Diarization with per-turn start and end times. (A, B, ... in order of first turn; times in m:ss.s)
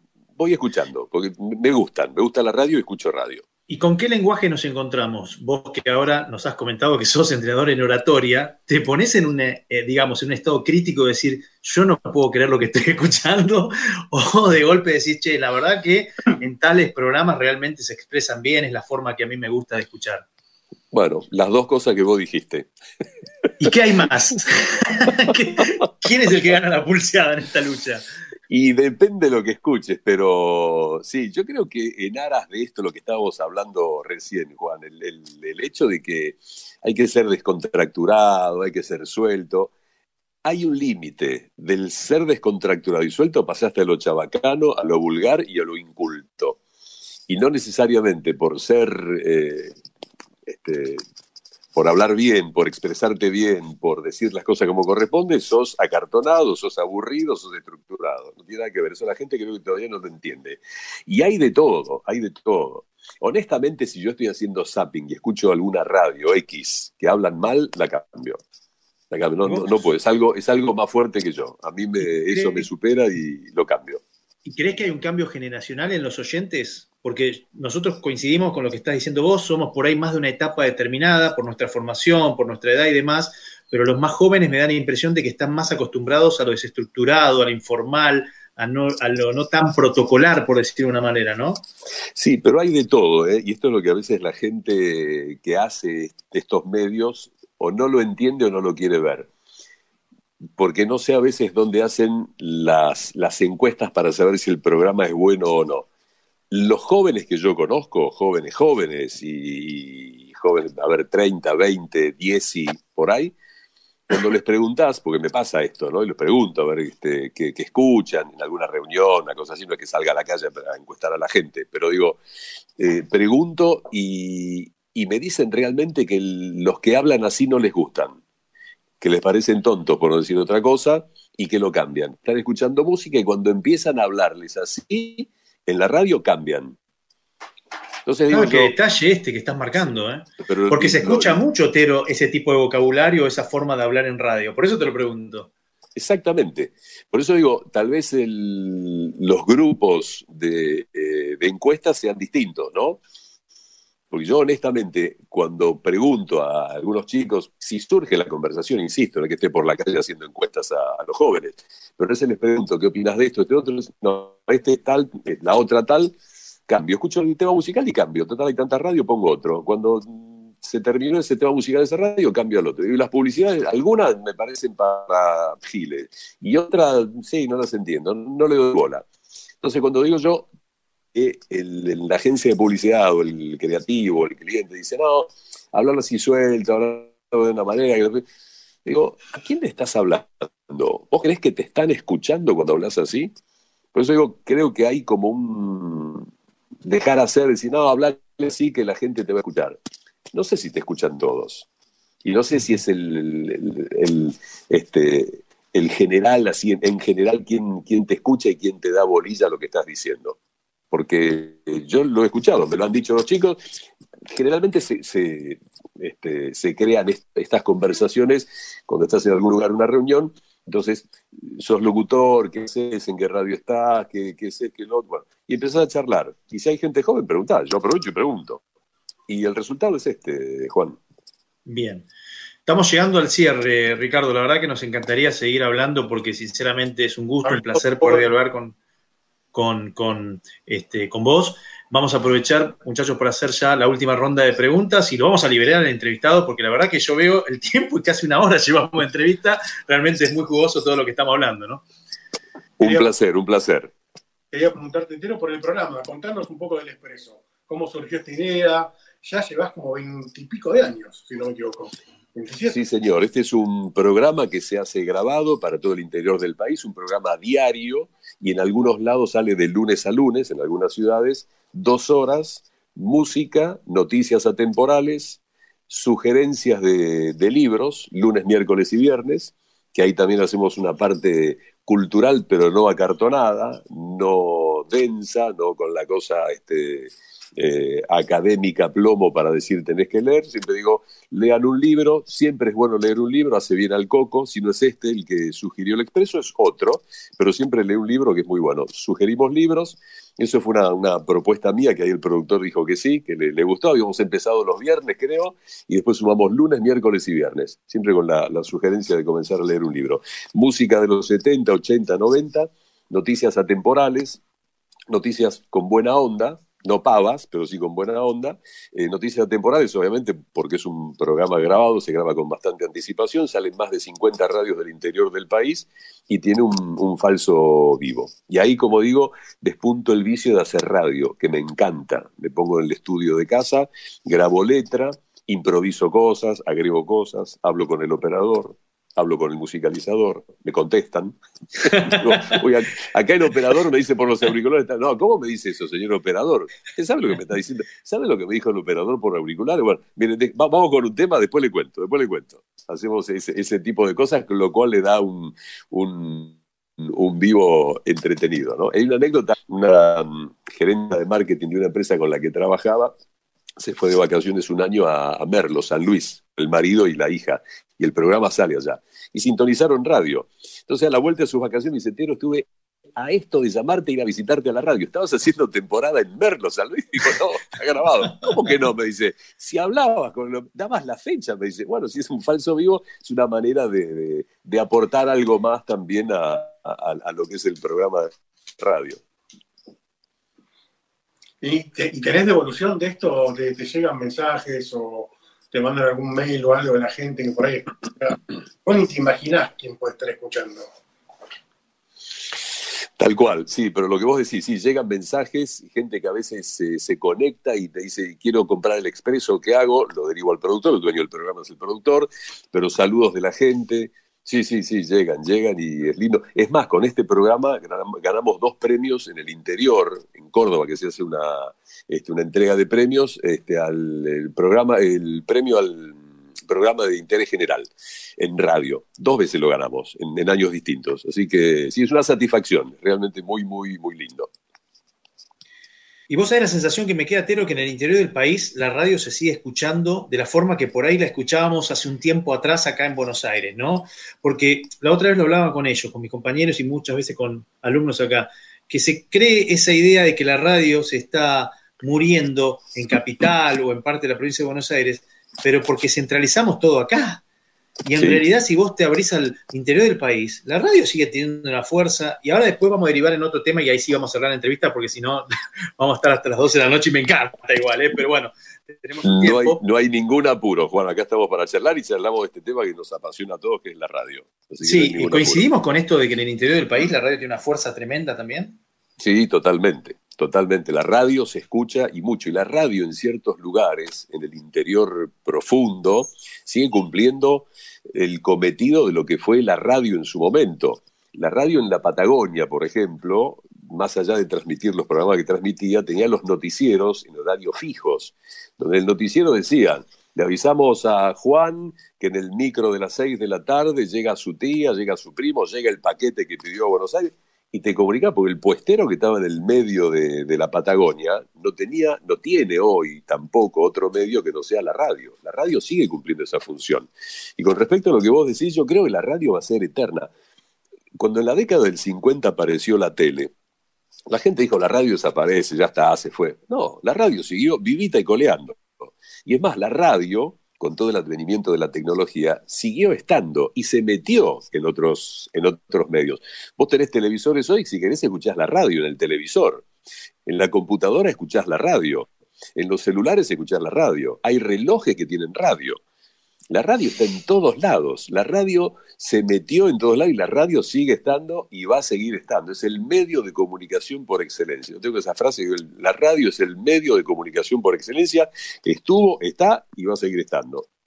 0:00.4-0:03.4 A
0:03.7-0:20.2 B
0:20.9-0:22.7 A
0:23.6-0:28.0 B
0:28.5-0:39.7 A
0:40.4-0:46.6 A
0:47.3-0:49.7 A
0:50.5-0:51.0 A
0:51.8-1:08.4 A
1:09.1-1:14.0 A
1:09.4-1:09.7 B
1:12.2-1:12.7 B
1:14.4-1:31.6 B
1:32.2-1:39.3 A
1:40.6-1:45.9 A
1:46.5-1:53.3 A
1:54.1-2:02.2 A
2:02.8-2:08.2 A
2:09.0-2:16.8 A
2:18.1-2:18.7 A
2:18.3-2:25.5 B
2:20.4-2:21.4 A
2:26.0-2:33.0 A
2:34.1-2:46.2 A
2:46.7-2:59.1 A
2:59.6-3:00.5 A
3:01.1-3:08.2 A
3:08.8-3:13.3 A
3:13.9-3:16.3 A
3:16.8-3:19.8 A
3:20.3-3:21.7 A
3:22.2-3:30.4 A
3:30.9-3:33.6 A
3:34.3-3:48.6 A
3:49.3-3:51.0 A
3:51.7-3:52.1 B
3:52.7-3:58.8 B
3:57.4-3:58.3 C
3:59.5-4:11.8 B
4:12.8-4:13.9 A
4:12.8-4:13.1 C
4:14.5-4:22.8 C
4:22.7-5:14.4 A
5:15.1-6:03.1 A
6:03.8-6:29.2 A
6:31.6-6:40.9 C
6:43.2-7:14.5 A
7:16.3-7:37.4 B
7:38.0-7:49.8 B
7:49.2-7:55.6 A
7:54.8-7:58.8 B
7:59.2-8:40.3 A
8:41.2-8:43.5 A
8:44.3-8:59.9 A
9:00.5-9:06.0 A
9:06.7-9:20.9 A